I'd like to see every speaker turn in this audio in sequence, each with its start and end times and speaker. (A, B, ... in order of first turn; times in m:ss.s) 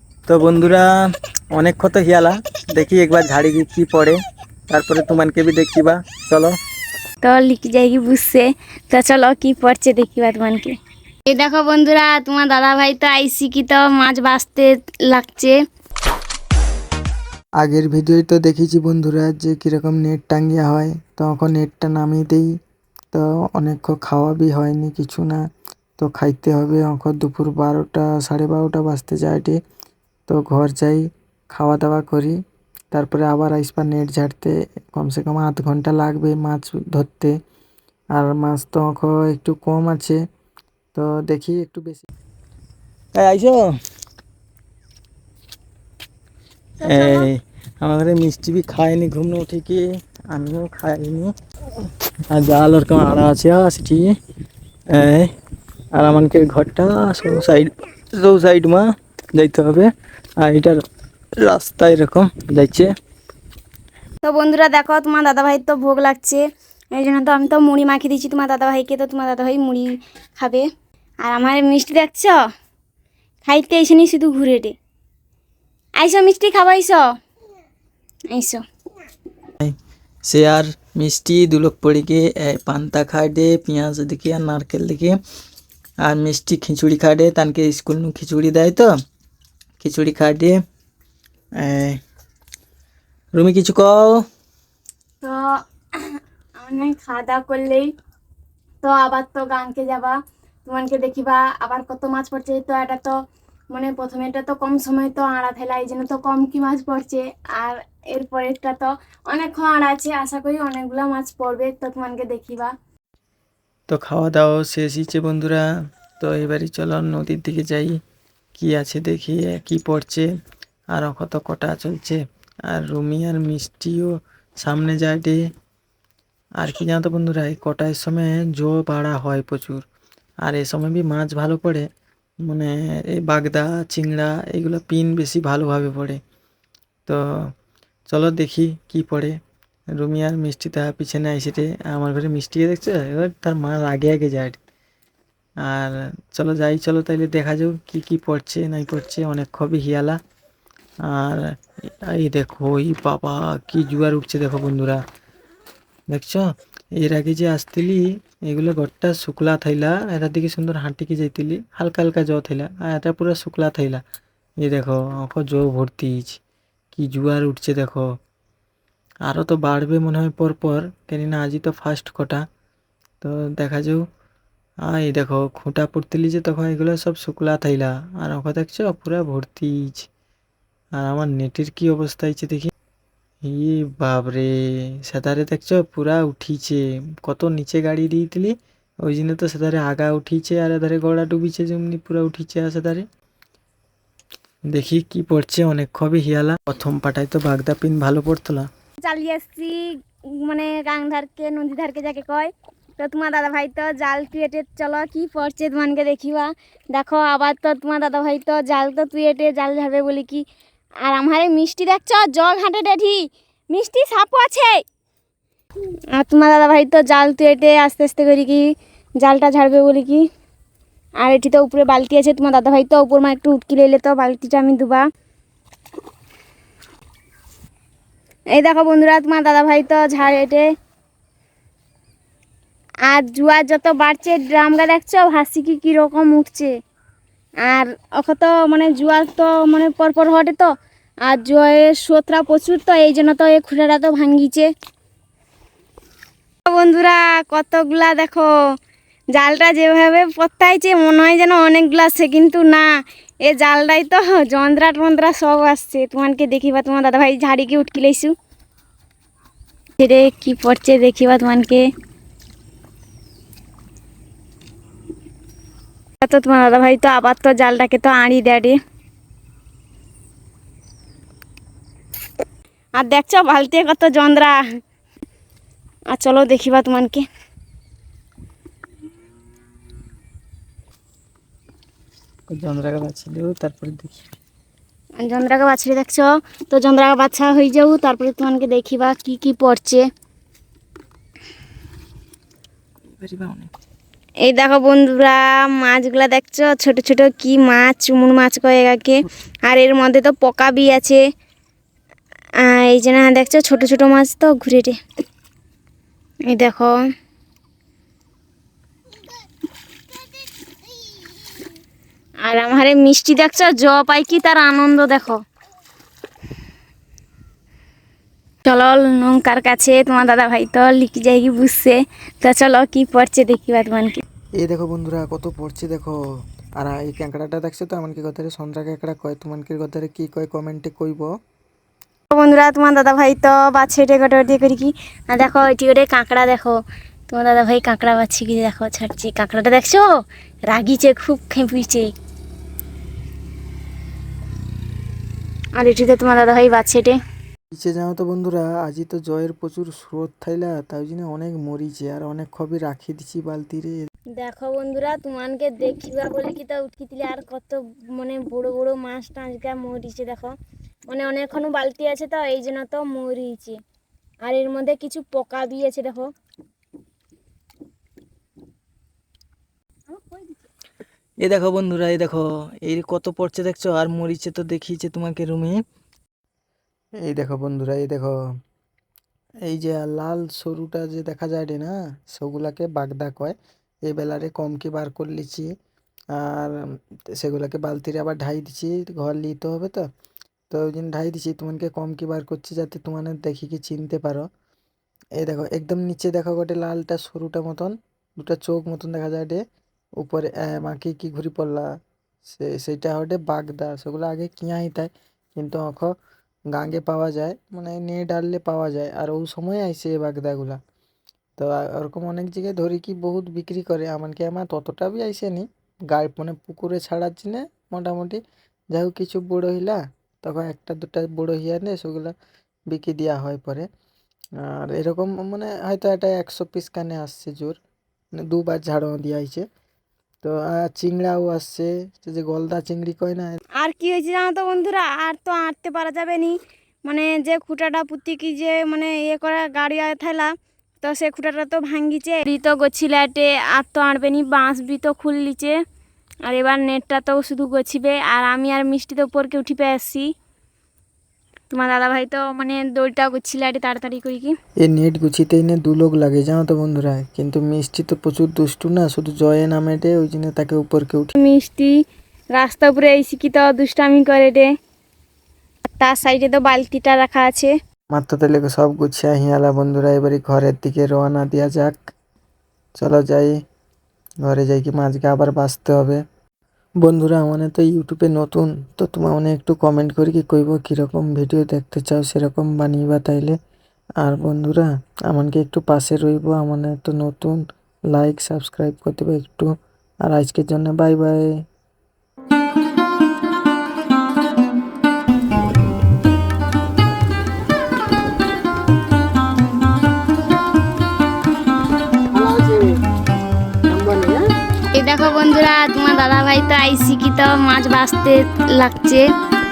0:00.3-0:00.9 A
0:01.5-0:04.2 A
0:04.7-0:06.6 A
0:07.2-0:10.7 B
0:11.3-0:15.6 B
0:17.6-0:22.5 A
0:23.1-0:25.4 A
0:26.0-0:29.6 A
0:30.3-0:32.4 A
0:32.9-0:37.3 A
0:38.2-0:40.2 A
0:41.0-0:42.1 A
0:43.2-0:43.7 A
0:46.8-0:47.3 B
0:46.8-0:51.3 A
0:52.3-0:54.1 A
0:54.9-0:55.3 A
0:56.0-0:59.9 A
1:00.4-1:00.8 A
1:01.4-1:02.9 A
1:04.2-1:06.4 B
1:07.0-1:10.7 B
1:11.2-1:12.4 B
1:13.4-1:14.8 B
1:16.0-1:17.0 B
1:18.3-1:18.6 B
1:20.3-1:25.2 A
1:26.0-1:28.9 A
1:29.8-1:30.6 A
1:31.6-1:32.0 A
1:33.4-1:34.2 A
1:36.0-1:37.9 B
1:38.8-1:43.2 B
1:43.7-1:52.7 B
1:53.9-1:55.7 A
1:56.2-1:58.0 A
1:58.6-2:00.3 A
2:00.9-2:05.4 A
2:06.6-2:09.8 A
2:10.4-2:11.9 A
2:12.4-2:16.2 A
2:17.1-2:17.5 A
2:18.1-2:19.4 A
2:20.0-2:24.6 A
2:25.6-2:30.2 A
2:31.1-2:35.0 A
2:36.1-2:36.5 A
2:37.0-2:44.0 A
2:44.6-2:46.4 A
2:46.9-2:48.1 A
2:49.3-2:52.4 A
2:53.2-2:54.0 A
2:54.9-3:00.1 A
3:01.0-3:02.7 A
3:03.4-3:13.0 A
3:14.7-3:18.7 A
3:19.0-3:30.4 B
3:31.0-3:34.8 B
3:36.1-3:38.6 B
3:39.2-3:40.3 B
3:41.2-3:45.0 B
3:48.5-3:50.7 B
3:53.1-3:56.7 B
3:57.6-4:00.7 B
4:01.3-4:04.7 B
4:06.7-4:08.5 B
4:09.3-4:12.9 B
4:13.4-4:18.3 B
4:20.0-4:21.8 B
4:26.2-4:28.8 B
4:33.0-4:34.6 B
4:36.1-4:37.2 B
4:42.5-4:44.3 A
4:45.2-4:50.0 B
4:53.2-4:53.7 A
4:54.4-5:01.2 B
5:02.6-5:05.0 B
5:06.5-5:07.0 B
5:12.4-5:15.4 B
5:18.7-5:24.2 B
5:24.6-5:26.2 A
5:26.8-5:31.3 A
5:32.3-5:36.8 B
5:37.3-5:40.1 B
5:40.7-5:42.1 B
5:45.8-5:47.2 B
5:47.7-5:54.0 A
5:54.4-6:00.6 B
6:01.1-6:03.8 B
6:04.4-6:06.3 B
6:10.1-6:10.7 B
6:11.4-6:15.8 A
6:17.2-6:18.3 A
6:19.6-6:25.7 A
6:26.3-6:26.8 A
6:27.3-6:30.0 A
6:30.7-6:34.5 A
6:35.4-6:39.6 A
6:40.2-6:41.9 A
6:42.5-6:46.1 A
6:46.7-6:50.8 A
6:51.6-6:58.4 A
6:58.9-7:02.3 A
7:02.9-7:03.9 A
7:04.6-7:07.8 A
7:08.5-7:09.6 A
7:10.4-7:13.6 A
7:13.8-7:25.8 B
7:26.5-7:30.3 B
7:31.7-7:34.6 B
7:34.8-7:41.3 A
7:41.4-7:42.0 B
7:42.5-7:44.7 B
7:46.0-7:47.7 B
7:48.1-7:52.0 A
7:53.0-7:53.6 A
7:54.4-7:56.2 A
7:57.0-8:03.6 A
8:04.2-8:07.6 A
8:08.1-8:09.7 A
8:10.2-8:11.5 A
8:22.4-8:22.9 A
8:23.9-8:24.4 A
8:24.9-8:29.3 B